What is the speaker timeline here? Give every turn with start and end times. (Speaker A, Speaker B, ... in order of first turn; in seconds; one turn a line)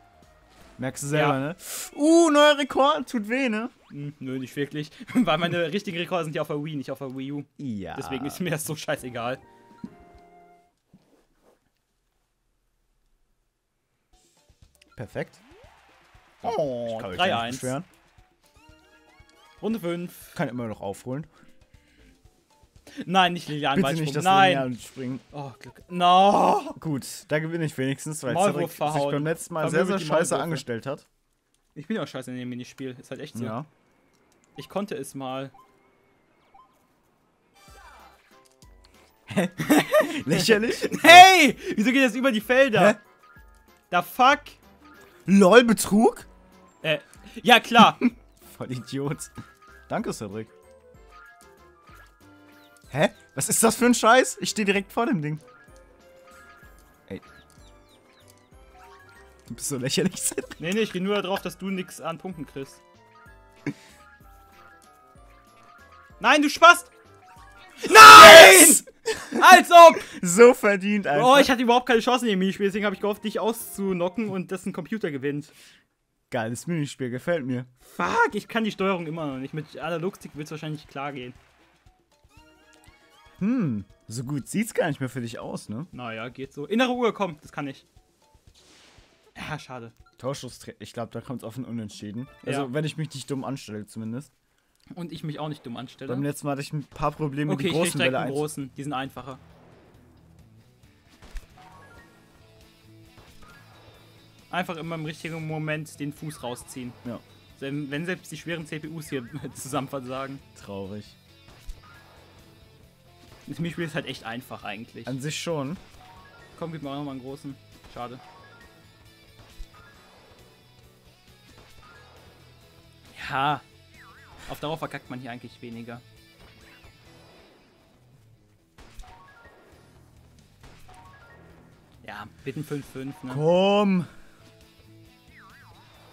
Speaker A: 0.8-3.7
Speaker B: 1.1-1.4
Speaker B: 3.9-9.4
Speaker A: 7.6-8.4
Speaker A: 14.9-15.4
Speaker B: 16.4-17.7
Speaker A: 16.4-17.9
Speaker B: 19.6-20.4
Speaker A: 20.3-21.3
Speaker B: 22.9-24.7
Speaker A: 23.7-25.2
Speaker B: 25.3-26.8
Speaker A: 26.8-31.1
Speaker B: 28.2-30.6
Speaker B: 31.7-33.6
Speaker A: 33.3-33.7
Speaker B: 34.5-35.5
Speaker A: 39.3-41.3
Speaker B: 39.6-43.0
Speaker B: 43.9-44.6
Speaker A: 45.2-46.3
Speaker B: 46.8-48.1
Speaker A: 48.0-49.3
Speaker A: 49.9-50.5
Speaker A: 52.9-55.4
Speaker A: 59.5-60.6
Speaker B: 60.6-62.8
Speaker B: 66.2-66.9
Speaker B: 67.8-70.1
Speaker A: 67.9-71.5
Speaker B: 71.1-75.5
Speaker A: 76.3-77.7
Speaker B: 77.8-81.4
Speaker A: 83.4-85.9
Speaker B: 85.9-87.8
Speaker B: 89.3-89.9
Speaker A: 90.2-94.3
Speaker B: 92.4-92.7
Speaker B: 94.9-96.2
Speaker A: 96.0-98.5
Speaker B: 97.5-99.4
Speaker B: 104.5-107.0
Speaker B: 107.5-110.4
Speaker A: 110.5-111.2
Speaker B: 113.5-115.1
Speaker A: 115.0-115.8
Speaker B: 116.5-118.2
Speaker B: 123.1-123.6
Speaker B: 124.5-126.0
Speaker B: 132.0-133.4
Speaker A: 133.3-134.1